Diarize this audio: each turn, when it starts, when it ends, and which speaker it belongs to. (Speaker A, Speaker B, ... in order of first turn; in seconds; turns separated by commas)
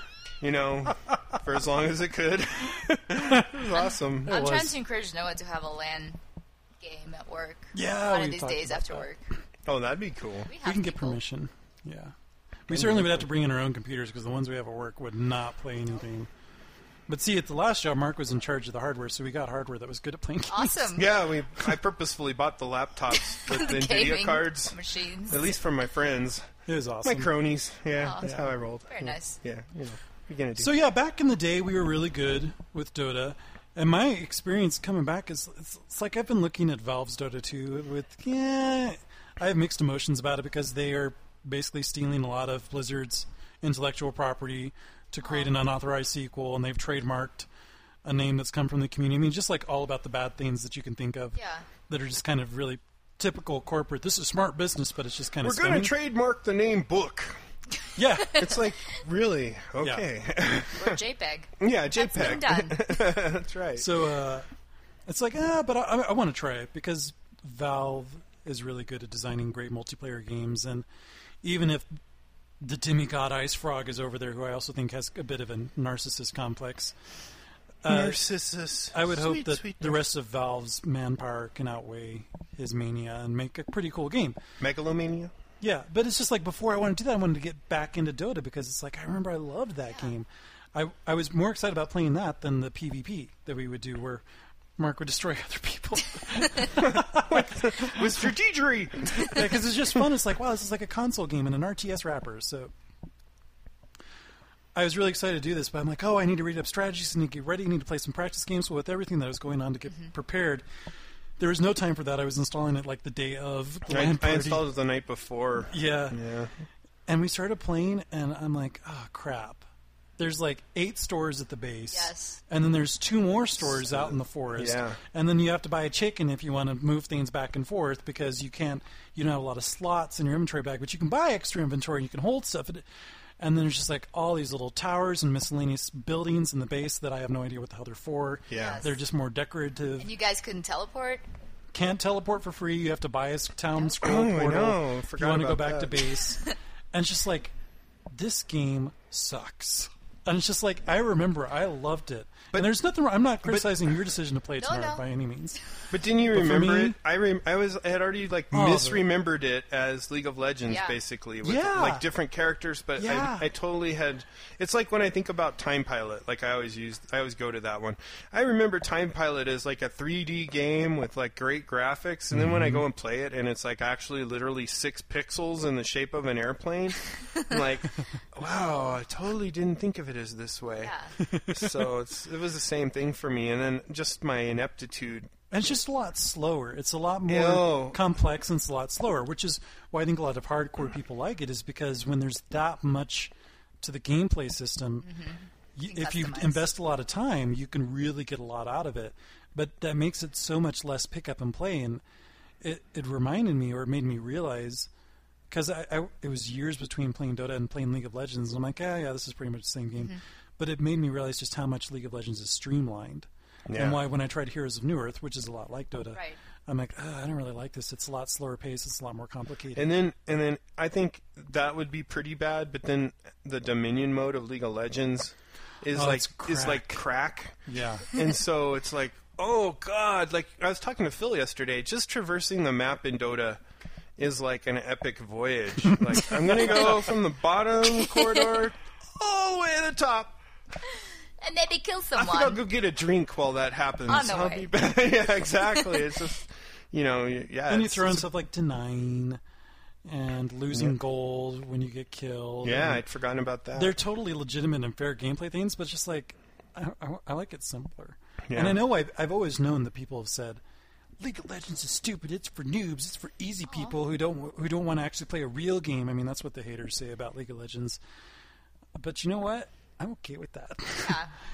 Speaker A: 0.4-4.3, Speaker B: 4.2-4.7, Speaker C: 4.3-6.2, Speaker C: 6.8-9.2, Speaker B: 7.7-9.1, Speaker A: 9.7-10.5, Speaker C: 10.5-11.2, Speaker B: 10.6-12.1, Speaker B: 12.7-16.3, Speaker A: 12.7-13.2, Speaker B: 17.1-21.0, Speaker C: 20.5-21.1, Speaker A: 20.9-26.5, Speaker C: 23.1-25.5, Speaker B: 26.7-27.3, Speaker A: 27.0-30.7, Speaker C: 28.0-28.2, Speaker B: 28.2-28.5, Speaker C: 28.9-29.4, Speaker B: 30.6-47.5, Speaker C: 45.2-45.5, Speaker B: 48.0-55.9, Speaker C: 51.3-51.7, Speaker A: 55.4-57.4, Speaker B: 58.0-58.4, Speaker A: 58.2-61.0, Speaker C: 58.3-58.7, Speaker B: 59.8-60.0, Speaker C: 60.7-63.0, Speaker A: 61.6-63.9, Speaker B: 63.8-64.5, Speaker B: 65.1-70.8, Speaker B: 71.4-71.9, Speaker B: 72.6-76.9, Speaker B: 77.8-78.2, Speaker A: 77.8-80.0, Speaker B: 78.9-84.4, Speaker A: 84.6-85.3, Speaker B: 85.6-94.2, Speaker B: 94.8-98.0, Speaker A: 96.7-99.6, Speaker B: 99.2-102.7, Speaker B: 104.7-110.6, Speaker B: 111.4-114.6, Speaker A: 113.9-116.5, Speaker B: 115.7-116.2, Speaker B: 117.1-119.6, Speaker B: 120.2-132.8, Speaker C: 121.9-122.4, Speaker A: 123.6-125.0, Speaker B: 133.4-140.1, Speaker A: 138.5-138.8, Speaker C: 138.5-138.9, Speaker C: 140.0-141.2, Speaker B: 141.7-146.4, Speaker A: 144.0-146.1, Speaker B: 146.9-147.5, Speaker B: 148.1-155.6, Speaker A: 153.4-153.7, Speaker C: 154.6-155.0, Speaker A: 155.9-180.9, Speaker B: 156.3-157.0, Speaker B: 158.5-159.1, Speaker C: 160.7-161.0, Speaker B: 161.4-162.0, Speaker B: 163.0-163.5, Speaker B: 172.3-172.8, Speaker C: 180.8-181.1, Speaker B: 181.2-181.8, Speaker A: 181.5-185.3, Speaker B: 185.5-195.1, Speaker A: 187.3-188.0, Speaker C: 195.0-196.7, Speaker B: 195.8-202.0, Speaker B: 202.6-204.9, Speaker B: 205.5-219.9, Speaker A: 213.7-214.0, Speaker A: 219.7-233.6, Speaker B: 225.9-227.1, Speaker B: 227.7-228.1, Speaker A: 234.2-240.4, Speaker B: 235.9-236.8, Speaker C: 237.9-238.6, Speaker C: 241.4-242.6, Speaker A: 242.1-248.3, Speaker C: 244.1-244.7, Speaker C: 245.7-246.2, Speaker B: 247.7-249.4, Speaker B: 250.1-253.0, Speaker A: 252.6-254.0, Speaker B: 253.8-260.6, Speaker A: 258.5-258.8, Speaker B: 261.2-268.0, Speaker C: 263.7-263.9, Speaker B: 268.9-271.2, Speaker C: 271.0-271.3